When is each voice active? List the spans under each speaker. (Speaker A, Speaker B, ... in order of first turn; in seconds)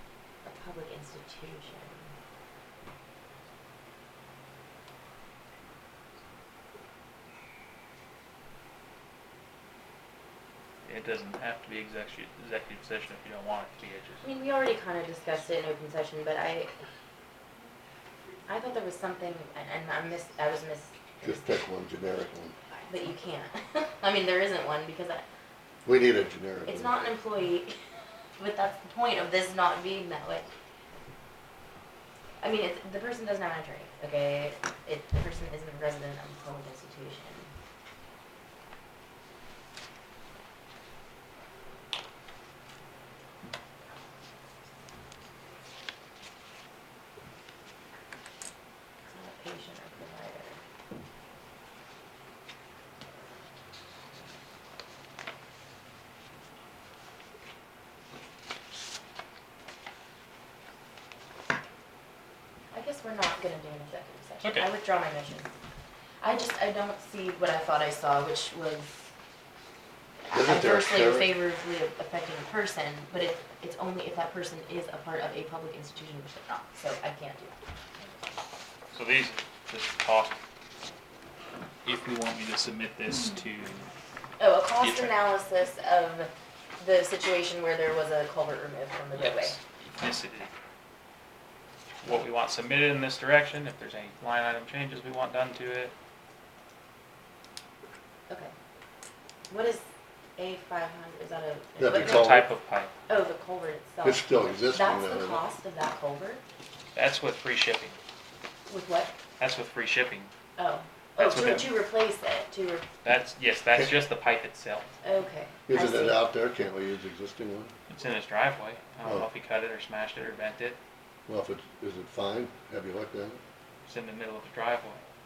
Speaker A: 0.4-2.1, 14.2-16.7, 18.5-21.5, 22.9-25.2, 26.7-27.8, 28.4-30.4, 32.4-37.5, 49.1-50.6, 62.7-65.5, 66.2-69.1, 70.2-77.5, 84.4-89.6, 99.5-99.8, 100.4-102.4, 103.1-106.4, 108.7-109.1, 110.6-112.9, 115.0-116.2
Speaker B: 10.8-14.2, 78.9-80.4, 81.8-83.9, 84.8-85.1, 89.1-90.5, 92.0-95.9, 101.9-102.9, 106.9-108.0, 109.4-110.3, 111.2-111.7, 113.0-114.9, 117.9-120.8, 123.9-125.0
Speaker C: 21.2-22.6, 25.8-26.9, 70.3-71.3, 101.8-102.5, 104.0-105.4, 115.7-117.7, 121.3-123.4